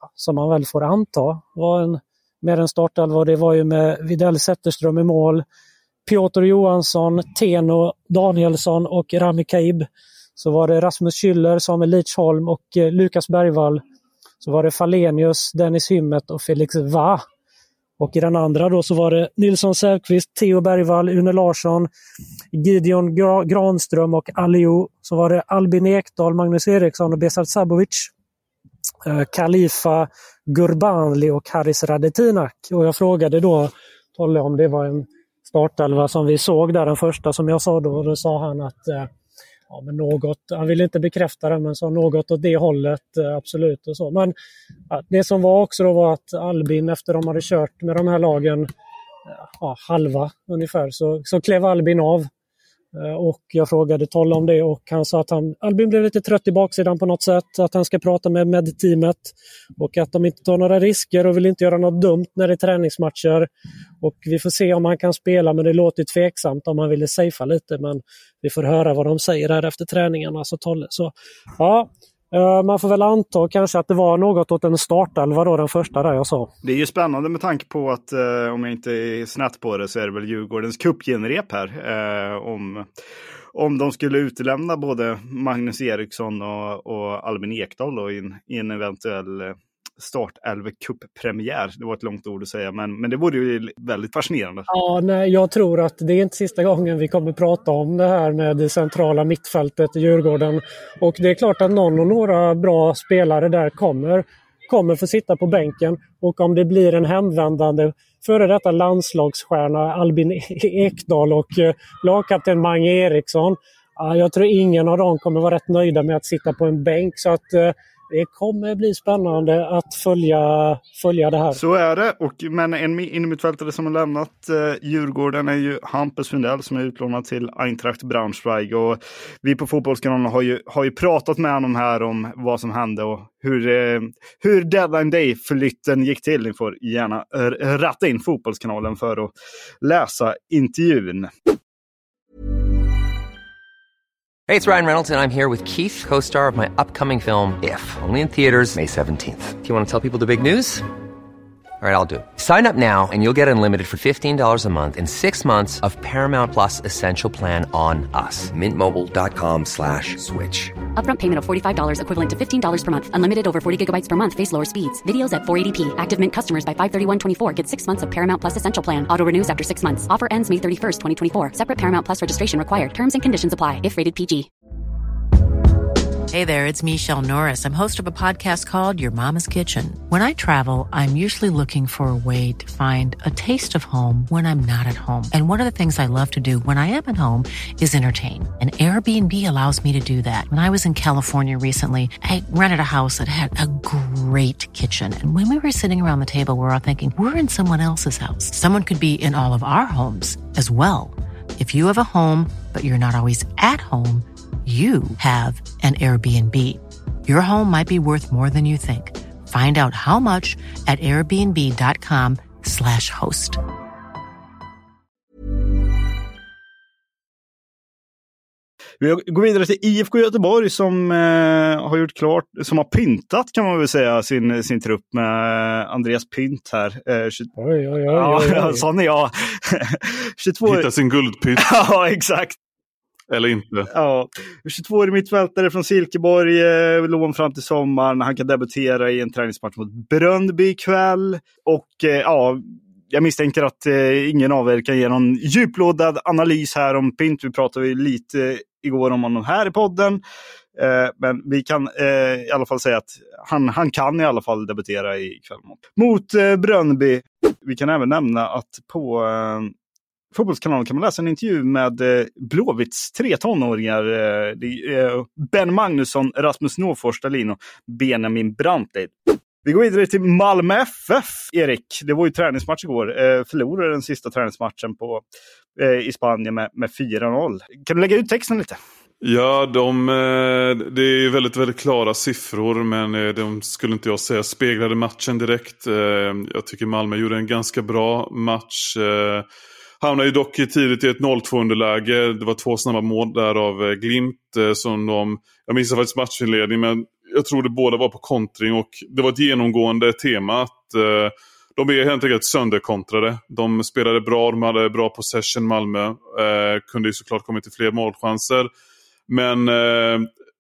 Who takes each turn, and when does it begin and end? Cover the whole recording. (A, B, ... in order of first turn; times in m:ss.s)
0:00.2-0:05.4 A
0:06.0-0:13.8 A
0:14.4-0:17.2 A
0:18.0-0:21.9 A
0:22.5-0:28.1 A
0:29.0-0:39.1 A
0:39.7-0:44.3 A
0:44.9-0:48.7 A
0:49.6-0:52.3 A
0:53.0-1:03.5 A
1:04.0-1:16.5 A
1:16.6-1:22.9 B
1:23.6-1:34.7 B
1:34.7-2:01.5 A
2:01.5-2:21.3 B
2:24.5-2:30.8 C
2:31.8-2:38.6 C
2:41.0-2:54.5 D
2:56.3-3:33.6 E
3:39.0-3:47.5 B
3:47.6-3:48.8 A
3:48.1-3:50.9 B
3:50.7-3:51.7 F
3:51.6-3:52.6 B
3:53.3-3:53.9 F
3:53.9-4:10.2 B
4:10.8-4:19.7 B
4:20.3-4:29.1 B
4:29.6-4:35.2 B
4:35.8-4:38.8 B
4:39.2-4:49.5 F
4:50.0-5:08.7 F
5:09.3-5:10.3 F